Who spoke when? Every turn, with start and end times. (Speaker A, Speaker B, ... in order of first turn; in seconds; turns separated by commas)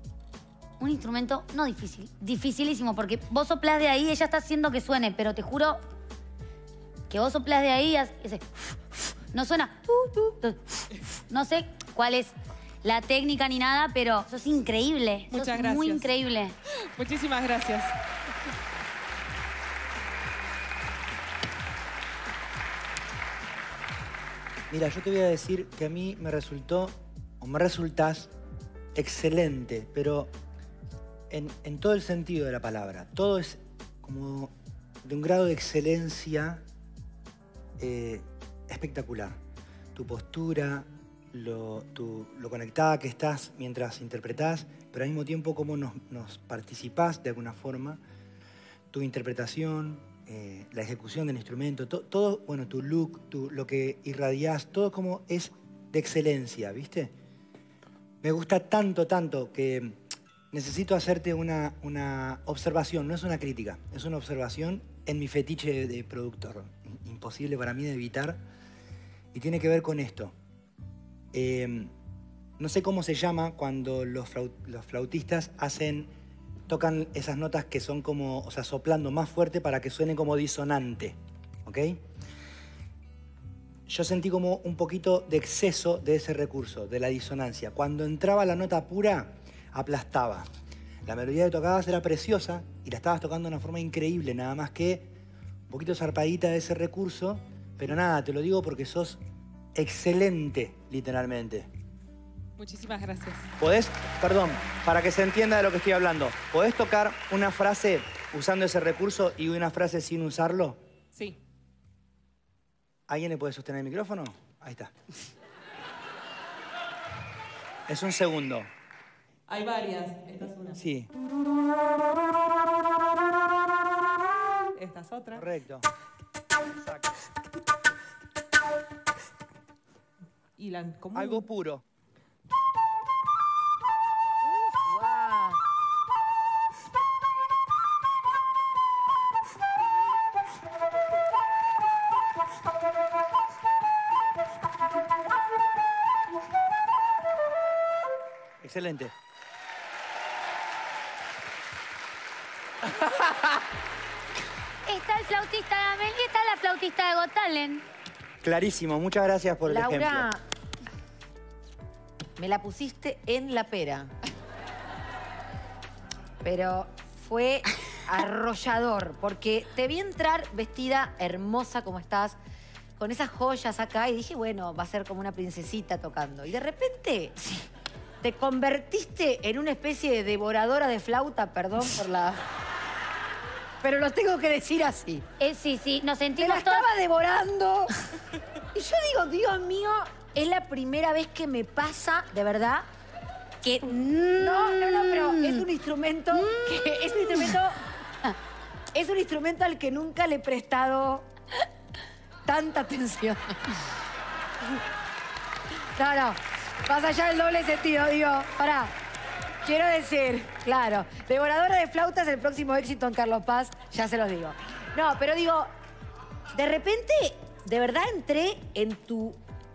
Speaker A: 0.8-5.8, Speaker A: 7.1-8.4, Speaker A: 9.3-10.6, Speaker A: 11.3-16.5, Speaker B: 15.3-16.1, Speaker B: 16.9-17.9, Speaker C: 24.7-28.3, Speaker C: 28.9-30.3, Speaker C: 31.3-34.5, Speaker C: 35.0-36.6, Speaker C: 37.8-39.4, Speaker C: 40.0-48.0, Speaker C: 48.9-57.1, Speaker C: 58.2-60.0, Speaker C: 60.5-68.4, Speaker C: 69.3-70.3, Speaker C: 71.3-71.9, Speaker C: 72.6-76.1, Speaker C: 76.7-82.0, Speaker C: 83.9-90.5, Speaker C: 91.1-95.1, Speaker C: 95.7-99.2, Speaker C: 99.8-101.7, Speaker B: 102.6-103.5, Speaker C: 103.6-110.8, Speaker B: 111.1-111.4, Speaker C: 113.1-114.9, Speaker C: 117.9-118.7, Speaker B: 119.5-120.8, Speaker C: 120.8-121.1, Speaker B: 124.7-125.5, Speaker C: 125.3-125.9, Speaker C: 126.8-127.1, Speaker B: 130.6-131.4, Speaker C: 131.2-131.8, Speaker D: 134.4-135.6, Speaker C: 148.6-149.1, Speaker A: 154.9-157.8, Speaker C: 158.4-160.3, Speaker D: 159.7-160.4, Speaker D: 162.4-164.1, Speaker D: 166.4-172.4, Speaker D: 173.0-177.7, Speaker D: 178.2-182.4, Speaker D: 183.8-185.2, Speaker A: 185.4-186.9, Speaker D: 186.4-187.9, Speaker D: 188.7-192.9, Speaker A: 193.7-195.6, Speaker D: 193.7-197.8, Speaker A: 196.3-197.6, Speaker D: 198.9-201.3, Speaker D: 202.5-203.6, Speaker D: 206.0-208.9, Speaker D: 209.6-215.7, Speaker D: 216.5-219.4